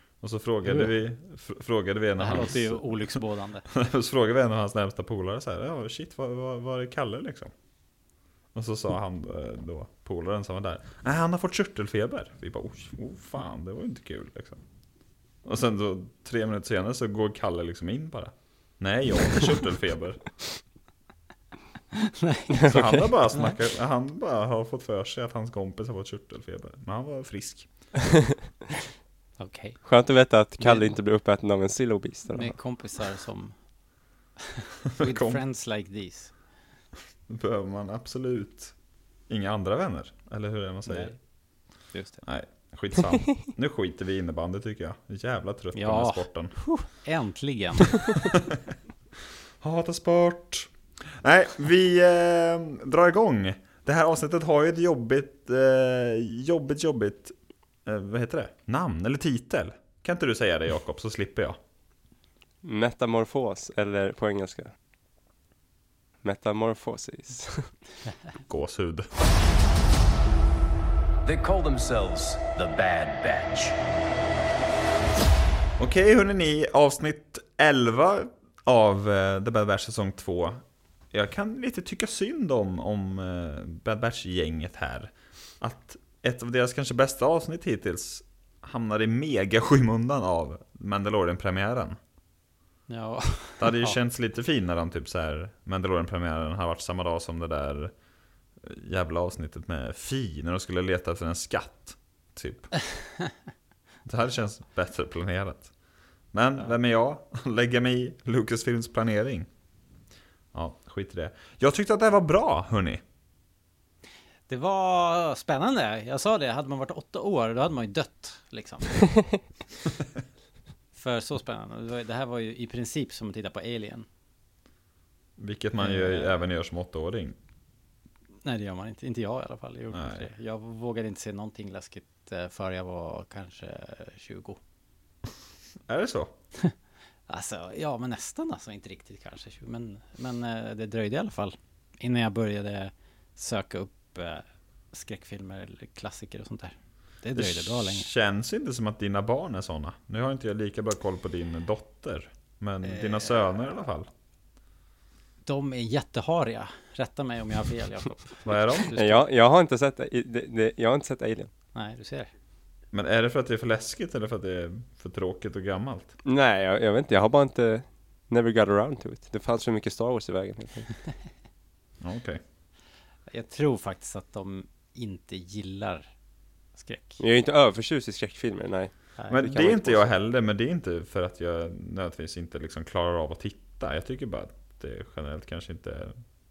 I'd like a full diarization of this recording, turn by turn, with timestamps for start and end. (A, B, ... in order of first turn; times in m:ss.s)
0:00.2-0:07.5 A
0:02.2-0:03.6 B
0:08.5-0:14.6 A
0:15.4-0:20.3 A
0:21.9-0:23.5 B
0:22.5-0:23.0 C
0:22.6-0:27.7 A
0:29.4-0:29.8 B
0:29.8-0:32.5 C
0:30.6-0:30.9 B
0:32.3-0:33.5 B
0:34.6-0:36.3 B
0:34.9-0:35.4 A
0:37.3-0:38.7 A
0:39.3-0:41.2 A
0:40.9-0:41.1 B
0:41.9-0:42.2 B
0:42.2-0:46.5 A
0:45.7-0:48.2 B
0:48.2-0:48.6 A
0:49.6-0:57.3 A
0:57.8-1:01.6 A
1:02.6-1:04.7 C
1:06.2-1:07.7 C
1:08.5-1:09.1 A
1:11.2-1:13.7 D
1:15.8-1:32.0 A
1:32.9-1:34.0 B
1:33.6-1:37.9 A
1:38.6-1:42.7 A
1:44.0-1:45.7 A
1:46.3-1:49.5 A
1:50.5-1:53.0 A
1:54.5-1:59.1 B
2:00.9-2:04.1 B
2:05.4-2:07.4 A
2:05.8-2:06.4 B
2:08.4-2:14.6 B
2:09.9-2:10.3 A
2:15.9-2:16.3 A
2:17.3-2:28.1 B
2:27.3-2:34.1 A
2:32.8-2:33.4 B
2:35.4-2:39.2 B
2:38.4-2:38.9 A
2:38.9-2:41.5 C
2:41.7-2:42.3 B
2:42.9-2:46.1 A
2:46.2-2:51.0 C
2:52.0-2:52.4 A
2:53.3-2:56.1 B
2:56.8-2:57.2 B
2:57.2-2:58.9 C
2:59.2-3:00.1 B
2:59.3-3:06.2 A